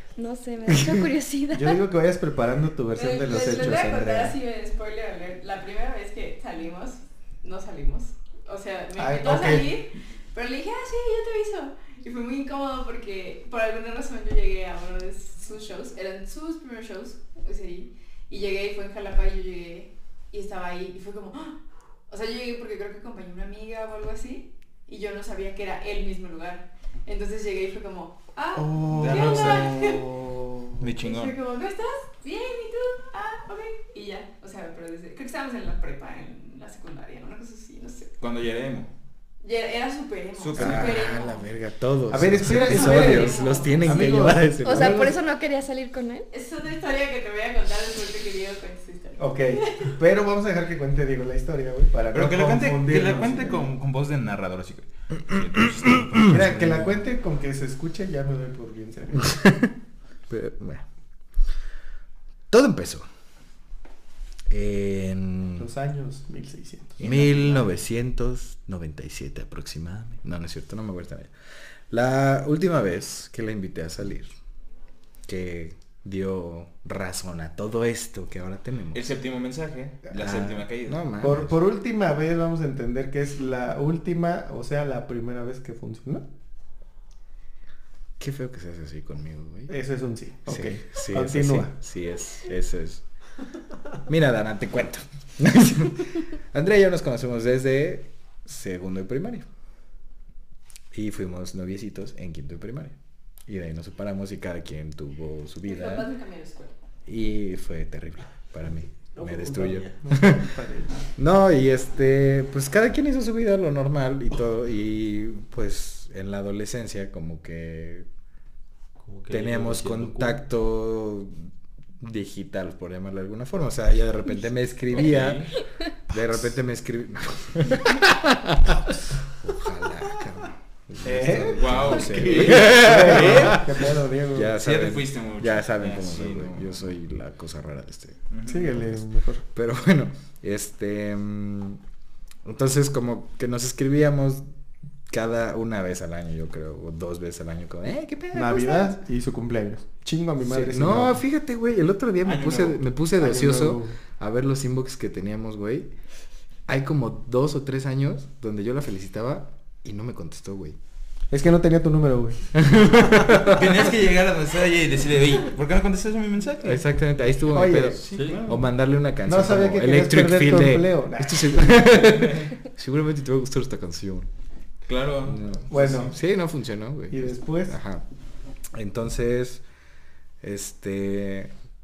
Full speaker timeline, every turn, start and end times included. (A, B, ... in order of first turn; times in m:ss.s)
0:00.2-0:01.8 A
0:01.5-0:04.4 B
0:03.0-0:30.1 C
0:03.3-0:03.7 D
0:09.0-0:09.8 B
0:28.6-0:30.8 B
0:28.8-0:30.0 E
0:30.8-0:31.4 E
0:31.0-0:38.1 C
0:38.2-0:38.9 E
0:39.4-0:41.4 C
0:40.4-0:41.0 E
0:40.6-0:45.1 D
0:42.1-0:45.1 B
0:42.7-0:44.1 C
0:44.6-0:46.3 A
0:46.3-0:49.9 C
0:49.2-0:53.7 B
0:52.1-0:57.0 E
0:56.2-0:59.4 B
1:00.3-1:00.9 D
1:02.5-1:03.1 D
1:04.5-1:05.7 D
1:05.6-1:07.6 B
1:07.0-1:11.3 D
1:11.9-1:14.4 D
1:15.3-1:19.0 D
1:18.9-1:21.0 E
1:20.2-1:21.5 D
1:21.2-1:26.3 B
1:28.2-1:29.7 D
1:29.7-1:31.7 B
1:30.5-1:33.0 D
1:34.1-1:39.5 D
1:40.9-1:43.0 D
1:43.5-1:46.1 D
1:45.6-1:46.7 C
1:47.1-1:50.2 D
1:49.2-1:49.9 F
1:50.0-1:51.0 B
1:51.2-1:58.1 D
1:59.0-2:00.4 F
1:59.3-2:05.6 D
2:05.0-2:05.5 E
2:06.1-2:08.8 D
2:09.4-2:18.2 D
2:11.0-2:14.6 B
2:11.6-2:13.8 E
2:14.6-2:16.7 E
2:18.3-2:18.7 E
2:18.4-2:19.4 B
2:19.5-2:21.8 D
2:22.4-2:24.4 D
2:25.1-2:29.0 D
2:28.3-2:31.2 B
2:30.4-2:35.9 D
2:32.2-2:32.8 E
2:33.2-2:34.0 B
2:36.7-2:40.8 D
2:41.3-2:43.3 B
2:42.6-2:43.6 D
2:43.4-2:46.8 E
2:46.6-2:54.3 D
2:47.5-2:48.1 B
2:47.7-2:48.6 E
2:48.2-2:48.5 F
2:49.3-2:52.0 B
2:54.9-2:55.8 E
2:55.3-2:58.0 D
2:55.7-2:56.2 B
2:57.1-2:57.8 B
2:58.7-2:59.6 D
3:00.4-3:01.5 D